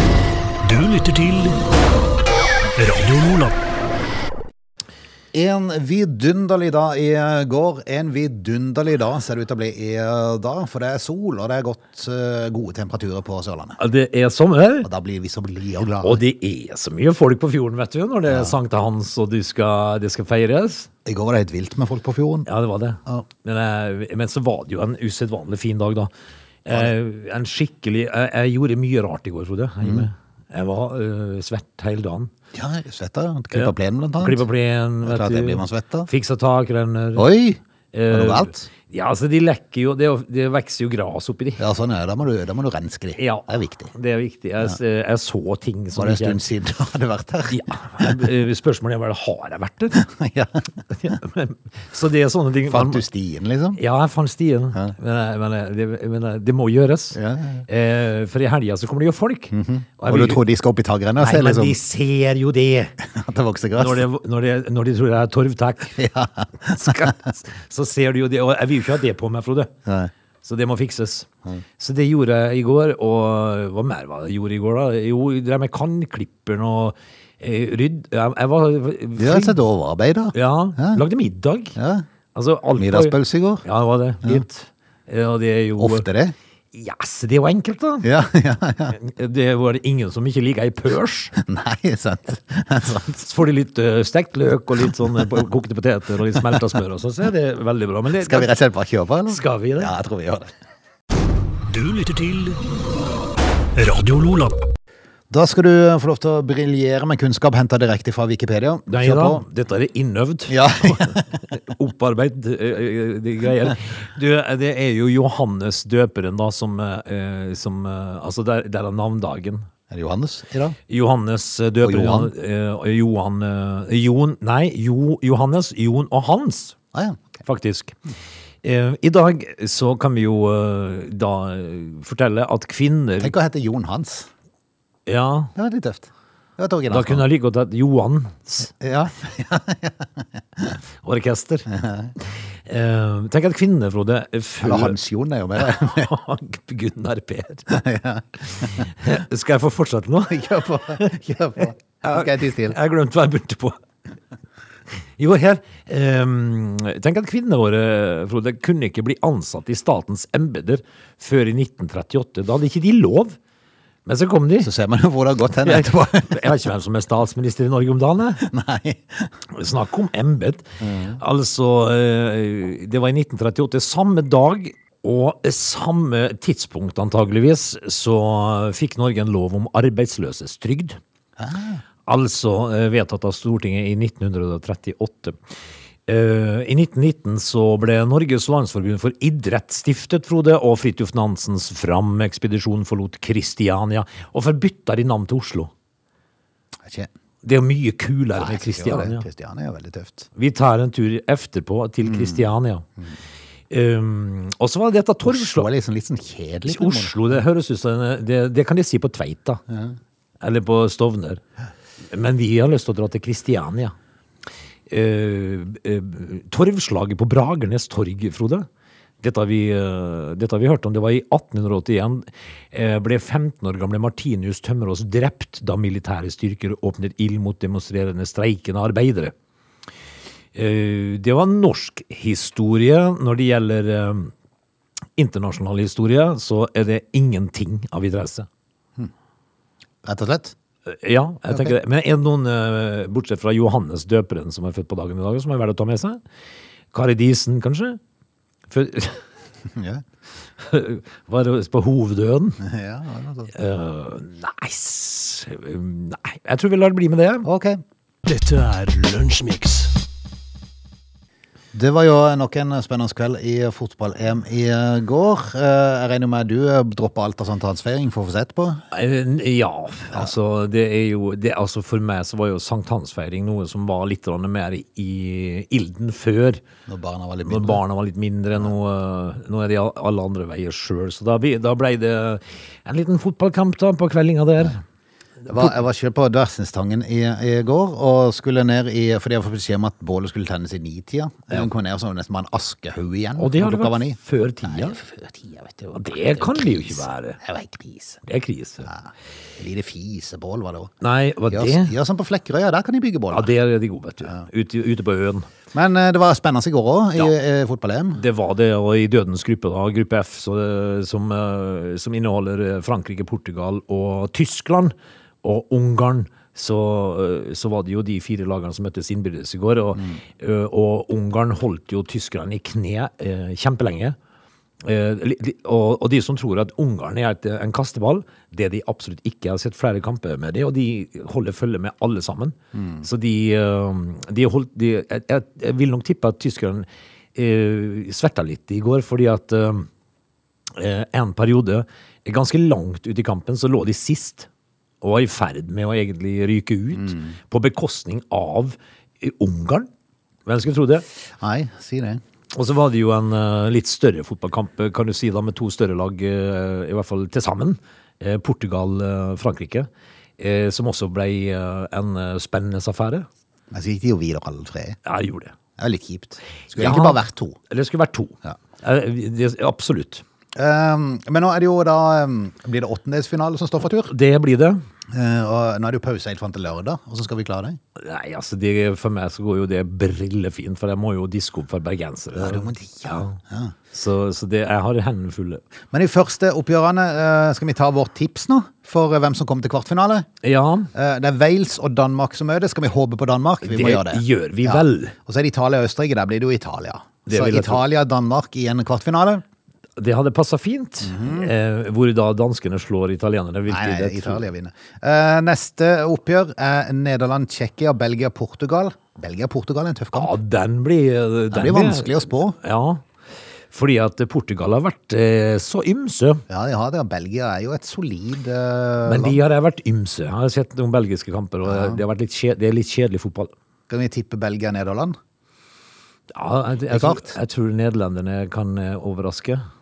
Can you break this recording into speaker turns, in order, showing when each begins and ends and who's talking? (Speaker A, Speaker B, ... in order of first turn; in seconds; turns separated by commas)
Speaker A: 0.6-1.6, Speaker A: 2.8-3.5, Speaker B: 5.3-13.8, Speaker C: 13.8-14.9, Speaker B: 14.8-16.2, Speaker C: 16.0-20.9, Speaker B: 18.3-18.5, Speaker B: 21.0-22.5, Speaker C: 22.4-26.1, Speaker C: 26.6-32.3, Speaker B: 29.8-30.1, Speaker B: 32.5-34.4, Speaker C: 33.5-37.2, Speaker B: 35.0-36.1, Speaker B: 37.1-38.6, Speaker C: 37.9-41.6, Speaker B: 41.6-43.9, Speaker C: 43.2-46.4, Speaker B: 45.9-48.3, Speaker C: 47.5-50.0, Speaker B: 49.9-51.2, Speaker C: 50.9-53.0, Speaker B: 52.7-53.8, Speaker C: 53.8-60.4, Speaker B: 57.1-57.6, Speaker B: 59.5-61.8, Speaker C: 61.2-62.9, Speaker B: 63.0-64.1, Speaker C: 63.8-66.0, Speaker B: 66.0-67.3, Speaker C: 66.6-69.7, Speaker B: 69.8-70.1, Speaker C: 70.4-79.6, Speaker B: 79.2-81.0, Speaker C: 80.3-81.8, Speaker B: 81.8-82.0, Speaker C: 82.3-86.1, Speaker B: 82.8-83.6, Speaker B: 85.8-86.3, Speaker C: 86.7-88.1, Speaker B: 88.0-89.0, Speaker C: 88.9-91.3, Speaker B: 91.3-93.3, Speaker C: 93.2-98.5, Speaker B: 95.0-95.4, Speaker B: 96.3-96.6, Speaker B: 98.2-100.5, Speaker C: 99.3-99.9, Speaker A: 101.7-102.6, Speaker A: 103.8-104.6, Speaker B: 105.3-109.4, Speaker C: 108.9-119.7, Speaker B: 110.5-111.4, Speaker B: 119.9-120.8, Speaker C: 120.9-126.8, Speaker B: 121.8-122.3, Speaker B: 126.9-127.4, Speaker C: 127.4-128.0, Speaker C: 128.6-133.3, Speaker B: 133.2-134.3, Speaker C: 135.1-135.5, Speaker B: 135.5-137.2, Speaker C: 136.9-138.7, Speaker B: 138.8-140.8, Speaker C: 141.0-141.7, Speaker B: 141.7-142.1, Speaker C: 142.7-145.0, Speaker B: 144.6-146.1, Speaker C: 145.6-147.8, Speaker B: 147.7-148.9, Speaker C: 148.5-151.0, Speaker B: 150.3-152.8, Speaker C: 152.0-153.8, Speaker C: 155.2-163.4, Speaker C: 164.1-164.7, Speaker B: 164.6-166.6, Speaker C: 165.6-168.4, Speaker B: 168.4-169.3, Speaker C: 169.5-181.0, Speaker B: 170.8-171.2, Speaker B: 181.4-181.8, Speaker C: 182.1-185.4, Speaker C: 186.1-195.7, Speaker C: 197.4-199.2, Speaker B: 198.3-200.3, Speaker C: 200.3-202.8, Speaker B: 202.0-202.4, Speaker C: 203.7-205.7, Speaker B: 205.2-207.2, Speaker C: 206.7-209.6, Speaker B: 209.7-209.9, Speaker C: 210.4-211.4, Speaker C: 212.1-213.9, Speaker C: 214.9-218.7, Speaker C: 219.2-229.3, Speaker C: 230.5-234.3, Speaker C: 235.2-238.5, Speaker B: 240.0-240.5, Speaker C: 240.8-246.2, Speaker B: 241.5-241.8, Speaker C: 246.9-248.0, Speaker C: 248.7-249.2, Speaker B: 249.7-250.0, Speaker C: 250.6-252.6, Speaker B: 252.6-253.5, Speaker C: 253.5-257.5, Speaker B: 257.4-257.8, Speaker A: 258.2-259.9, Speaker B: 261.7-268.8, Speaker C: 268.9-276.6, Speaker B: 276.9-277.8, Speaker C: 277.4-284.8, Speaker C: 285.5-285.7, Speaker B: 285.5-298.2, Speaker C: 293.4-295.0, Speaker C: 295.9-297.4, Speaker C: 298.2-298.9, Speaker B: 298.8-300.9, Speaker C: 301.0-301.9, Speaker B: 301.5-303.5, Speaker C: 303.3-305.5, Speaker B: 305.7-308.2, Speaker C: 308.1-324.1, Speaker C: 324.8-339.9, Speaker B: 332.7-333.1, Speaker C: 340.7-344.5, Speaker C: 345.0-349.9, Speaker B: 347.0-347.3, Speaker C: 350.4-351.0, Speaker B: 351.4-352.2, Speaker C: 352.5-363.3, Speaker B: 363.7-365.0, Speaker C: 365.0-365.5, Speaker B: 365.8-367.6, Speaker C: 366.7-370.2, Speaker B: 370.5-374.1, Speaker C: 374.1-374.8, Speaker B: 375.1-377.8, Speaker C: 378.0-383.4, Speaker B: 382.3-383.7, Speaker C: 383.9-385.6, Speaker B: 385.9-390.3, Speaker C: 390.4-390.9, Speaker B: 390.9-399.4, Speaker C: 393.6-395.1, Speaker C: 397.3-397.8, Speaker C: 400.0-404.4, Speaker B: 401.0-401.5, Speaker B: 403.7-410.3, Speaker C: 410.1-413.0, Speaker B: 411.5-412.6, Speaker C: 413.7-416.4, Speaker B: 416.5-419.4, Speaker C: 419.1-423.5, Speaker B: 421.6-422.0, Speaker B: 423.9-425.2, Speaker C: 426.3-429.6, Speaker B: 426.9-427.3